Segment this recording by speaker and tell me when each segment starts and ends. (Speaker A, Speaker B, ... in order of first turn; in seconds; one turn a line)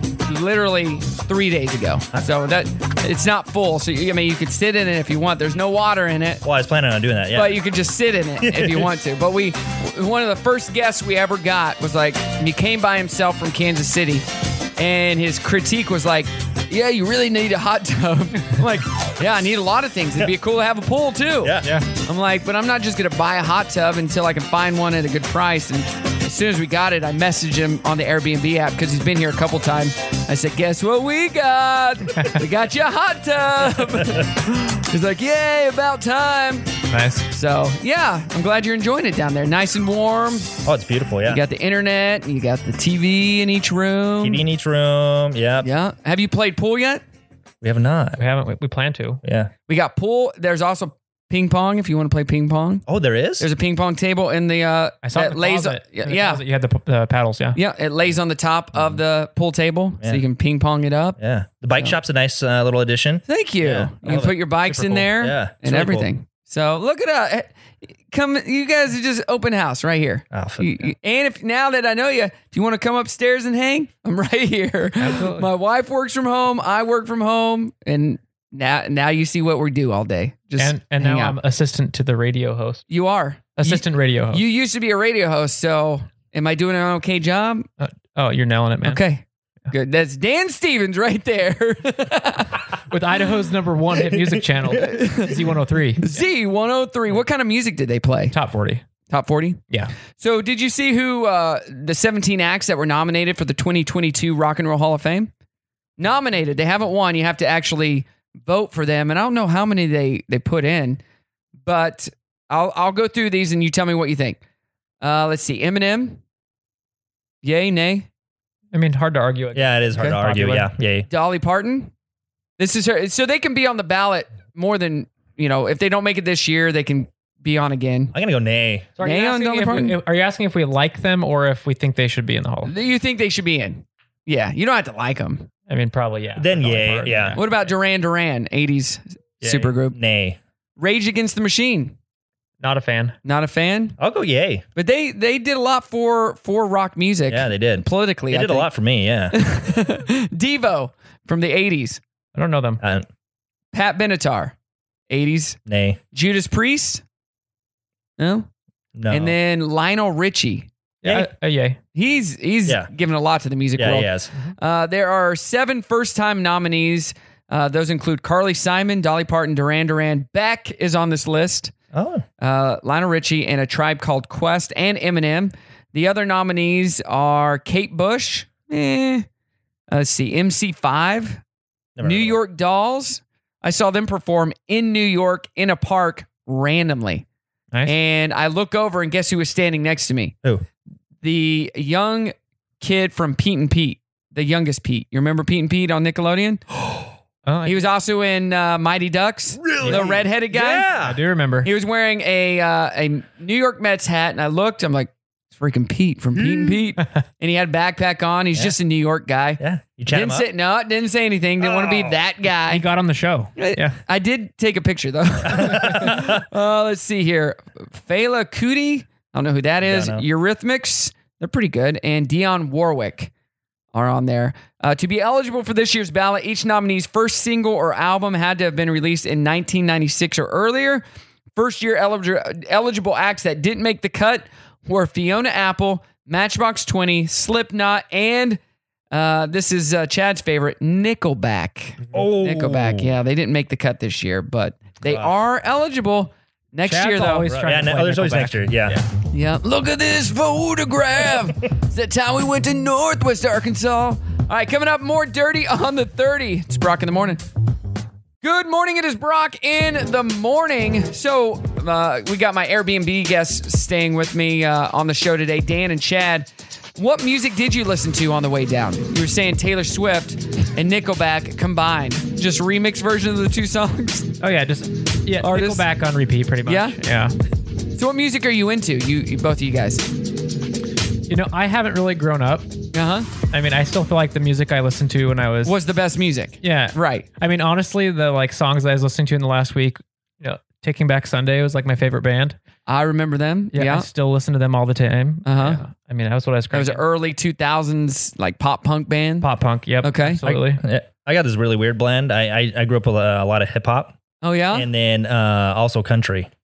Speaker A: 0.2-6.4
Speaker B: 6.4-7.6
Speaker A: 7.3-14.2
Speaker B: 8.4-8.9
Speaker A: 14.8-36.7
Speaker B: 21.4-21.8
Speaker B: 33.8-34.2
Speaker C: 36.9-37.2
Speaker A: 37.3-40.5
Speaker B: 40.6-41.4
Speaker A: 41.3-44.4
Speaker B: 44.2-45.7
Speaker A: 45.6-47.0
Speaker B: 47.6-48.2
Speaker C: 48.2-49.2
Speaker B: 49.2-49.5
Speaker A: 49.7-52.8
Speaker B: 52.9-53.5
Speaker A: 53.4-56.4
Speaker C: 55.0-57.6
Speaker A: 57.5-61.2
Speaker B: 61.2-66.1
Speaker A: 63.3-67.5
Speaker A: 68.1-81.4
Speaker B: 70.3-70.9
Speaker C: 75.0-75.5
Speaker C: 80.6-82.8
Speaker A: 82.9-87.7
Speaker C: 83.6-84.5
Speaker C: 87.8-89.0
Speaker A: 88.8-92.6
Speaker C: 92.9-96.2
Speaker B: 94.1-94.6
Speaker A: 94.8-95.5
Speaker A: 96.0-98.3
Speaker C: 98.3-98.8
Speaker A: 99.1-99.6
Speaker A: 100.2-105.3
Speaker A: 106.0-111.0
Speaker A: 111.6-114.4
Speaker A: 115.0-116.2
Speaker A: 117.4-118.1
Speaker C: 118.7-120.7
Speaker B: 119.5-121.0
Speaker A: 121.1-121.9
Speaker A: 122.6-128.1
Speaker B: 128.1-128.9
Speaker C: 129.0-132.7
Speaker A: 129.0-130.0
Speaker A: 132.6-135.5
Speaker C: 135.7-137.7
Speaker B: 136.4-137.4
Speaker A: 137.4-139.9
Speaker B: 139.4-140.4
Speaker A: 140.8-141.9
Speaker C: 142.6-143.2
Speaker A: 143.2-143.9
Speaker B: 144.0-144.6
Speaker A: 144.7-148.7
Speaker B: 147.3-149.4
Speaker A: 149.3-152.0
Speaker C: 152.3-152.8
Speaker B: 152.8-153.1
Speaker A: 153.7-154.5
Speaker A: 155.1-155.6
Speaker B: 155.7-156.0
Speaker A: 156.1-157.0
Speaker A: 158.2-158.5
Speaker B: 158.9-159.3
Speaker A: 159.1-160.7
Speaker C: 161.0-161.8
Speaker B: 161.0-161.3
Speaker A: 161.9-171.7
Speaker B: 163.8-164.3
Speaker B: 171.9-172.2
Speaker A: 172.4-179.3
Speaker A: 179.9-181.4
Speaker B: 181.9-182.4
Speaker A: 182.0-187.2
Speaker A: 187.8-190.4
Speaker A: 191.2-196.6
Speaker C: 197.4-197.9
Speaker A: 197.6-200.9
Speaker B: 199.6-201.2
Speaker C: 201.0-201.7
Speaker A: 201.6-212.8
Speaker B: 209.6-210.5
Speaker B: 211.6-212.2
Speaker C: 212.7-214.0
Speaker A: 213.6-223.3
Speaker B: 215.5-216.4
Speaker B: 219.8-220.2
Speaker A: 223.9-231.1
Speaker A: 231.6-238.6
Speaker A: 239.1-247.5
Speaker B: 242.1-243.1
Speaker B: 245.1-245.3
Speaker C: 246.9-249.1
Speaker B: 247.5-249.0
Speaker A: 249.3-257.4
Speaker A: 258.4-274.4
Speaker C: 274.4-277.3
Speaker A: 275.4-275.8
Speaker A: 276.6-276.9
Speaker A: 277.9-280.0
Speaker C: 281.3-282.7
Speaker A: 282.9-283.3
Speaker C: 283.5-285.8
Speaker A: 285.6-287.3
Speaker C: 286.6-292.6
Speaker A: 292.9-294.1
Speaker C: 293.7-297.0
Speaker A: 295.4-295.8
Speaker A: 296.7-299.5
Speaker C: 299.4-300.8
Speaker A: 300.0-300.6
Speaker B: 300.8-304.2
Speaker A: 304.4-304.9
Speaker B: 304.7-306.5